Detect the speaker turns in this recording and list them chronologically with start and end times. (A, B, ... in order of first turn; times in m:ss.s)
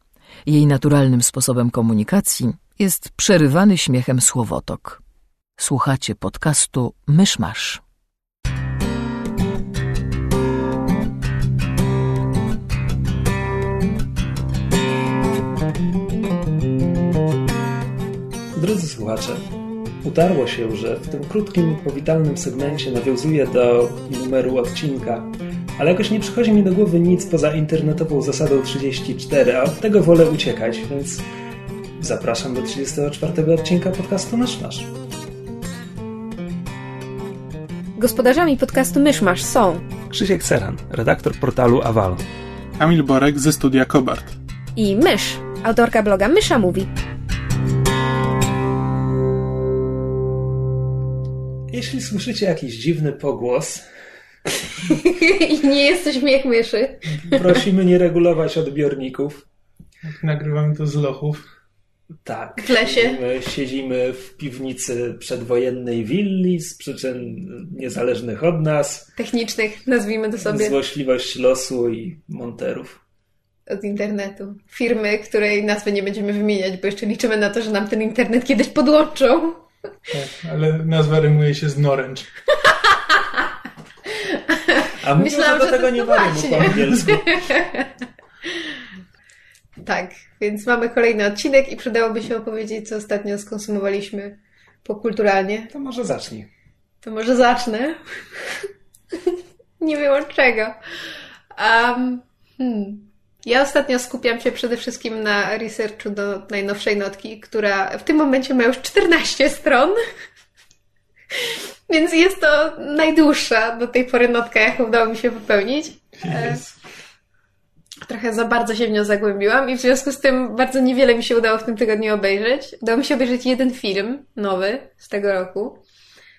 0:00.4-0:05.0 A
0:05.6-0:07.8 A
0:18.5-0:19.4 B
0:20.0-0:31.2 B
0:32.0-0:34.9 B
0:38.0-0:39.8 C
0:40.1-0:42.2 B
0:42.8-0:44.4 D
0:44.8-0:46.9 C
0:51.7-0:53.8 B
0:54.8-0:57.5 C
0:57.2-0:59.4 B
1:00.0-1:01.4 D
1:02.2-1:09.1 B
1:02.6-1:03.2 C
1:09.2-1:10.7 C
1:10.4-1:13.0 B
1:13.7-1:19.6 C
1:20.1-1:22.3 D
1:22.7-1:23.2 C
1:24.1-1:27.9 C
1:25.0-1:27.4 B
1:29.8-1:35.7 C
1:35.7-1:36.5 B
1:37.0-1:38.0 C
1:39.2-1:40.8 C
1:41.6-1:50.0 C
1:51.4-1:56.6 C
1:56.2-1:56.8 D
1:58.0-2:05.8 C